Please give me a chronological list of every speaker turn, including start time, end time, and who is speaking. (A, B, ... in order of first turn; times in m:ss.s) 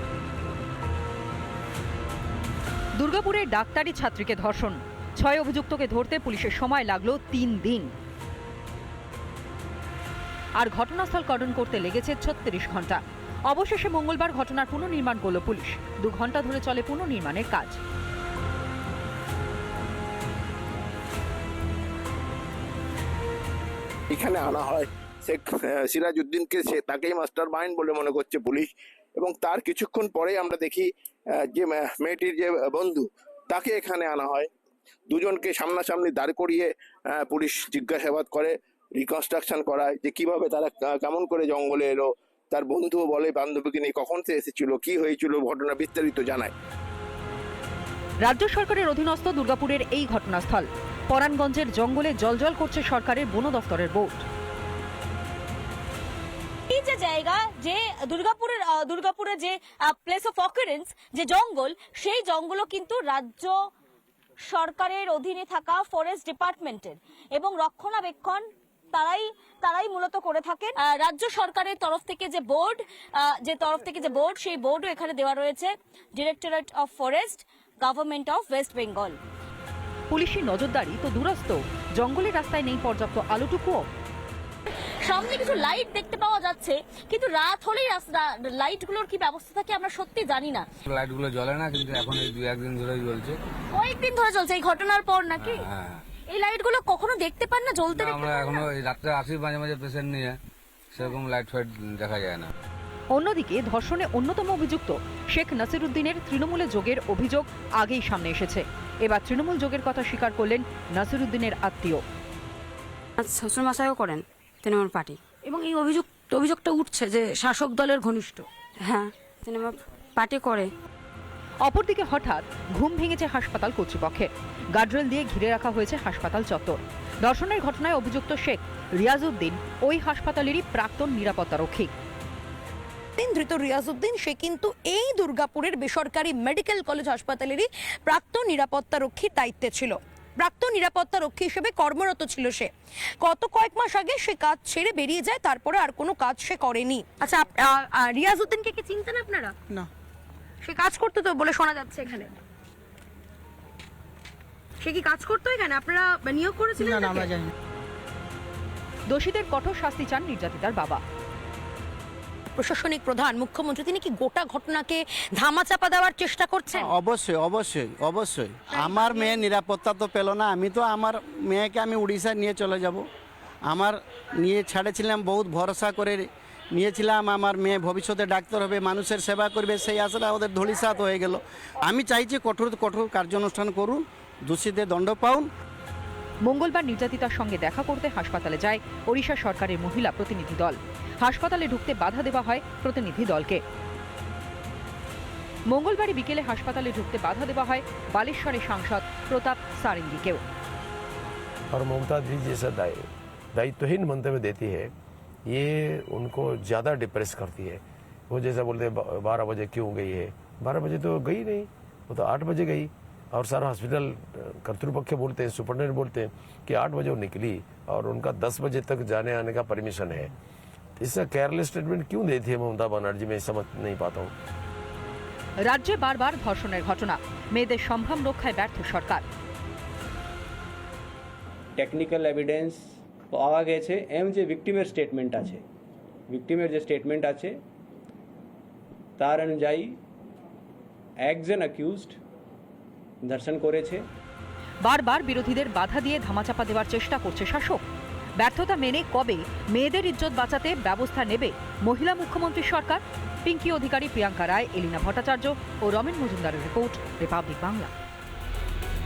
0:03.0-0:07.9 A
0:10.6-0:17.8 A
0:24.1-0:30.9 B
0:31.5-0:34.5 B
0:35.1-0:46.5 B
0:48.2-0:54.2 A
0:56.7-1:03.5 C
1:04.4-1:19.2 C
1:20.1-1:23.9 A
1:25.0-1:30.7 C
1:30.8-1:33.4 D
1:33.7-1:35.6 C
1:35.4-1:36.0 D
1:36.3-1:38.6 C
1:37.9-1:40.4 D
1:40.9-1:42.5 D
1:43.1-1:52.0 A
1:53.2-1:55.2 E
1:55.5-1:56.1 F
1:56.3-1:57.6 E
1:57.7-1:58.4 F
1:58.8-2:00.7 E
2:01.6-2:11.9 A
2:13.2-2:29.6 F
2:30.6-2:32.3 F
2:34.8-2:37.3 F
2:39.1-2:41.0 A
2:42.5-2:46.9 F
2:46.7-2:53.0 G
2:53.7-3:05.5 G
3:06.4-3:13.6 A
3:15.7-3:20.4 A
3:21.7-3:24.9 H
3:25.5-3:40.3 H
3:41.0-3:44.3 H
3:45.6-3:49.2 A
3:51.8-3:55.6 I
3:56.3-3:57.6 I
3:59.2-4:00.0 I
4:01.2-4:02.2 I
4:03.2-4:04.0 I
4:04.8-4:07.8 A
4:08.4-4:17.9 A